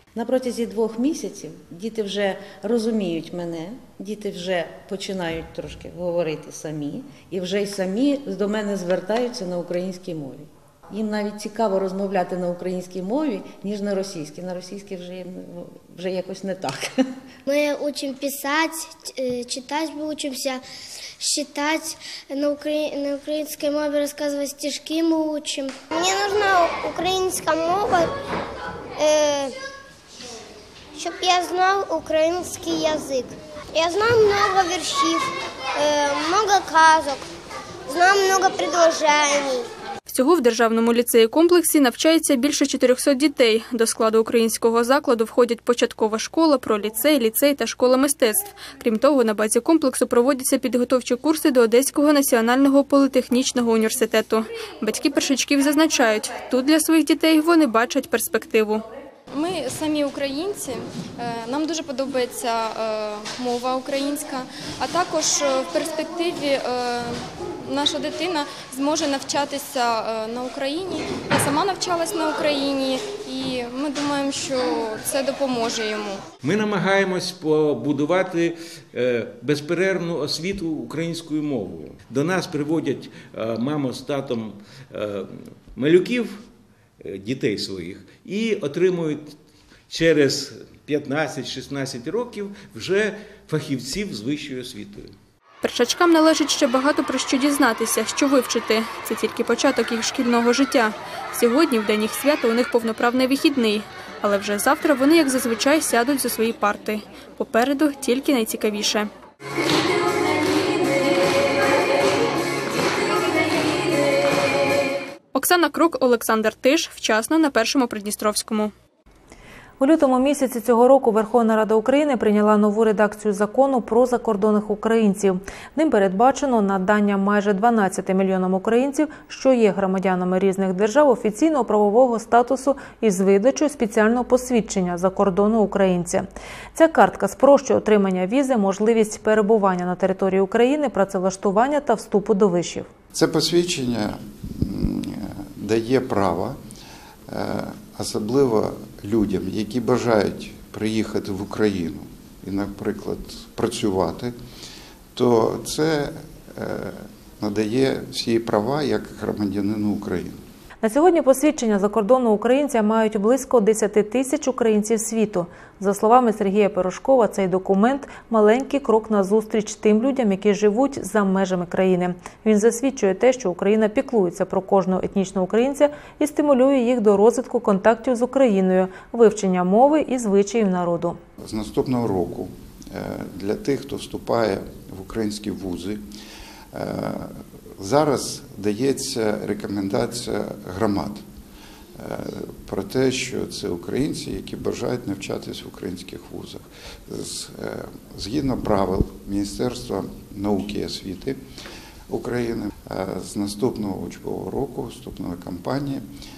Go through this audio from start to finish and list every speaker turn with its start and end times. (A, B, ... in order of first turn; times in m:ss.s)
0:00.1-0:16.9 A
0:17.4-0:20.6 B
0:21.2-0:28.1 B
0:29.0-0:29.6 B
0:31.0-0:37.2 B
0:37.9-0:39.7 B
0:40.1-0:58.8 C
0:59.3-1:16.3 D
1:16.4-1:26.4 E
1:27.0-1:29.3 E
1:29.9-1:35.1 E
1:35.6-1:49.1 C
1:55.3-1:58.7 C
1:59.8-2:22.9 F
2:23.1-2:26.6 G
2:27.3-2:34.3 G
2:35.1-2:40.4 G
2:40.8-3:01.2 F
3:01.4-3:06.0 G
3:06.7-3:11.2 G
3:12.0-3:21.4 G
3:22.1-3:26.0 G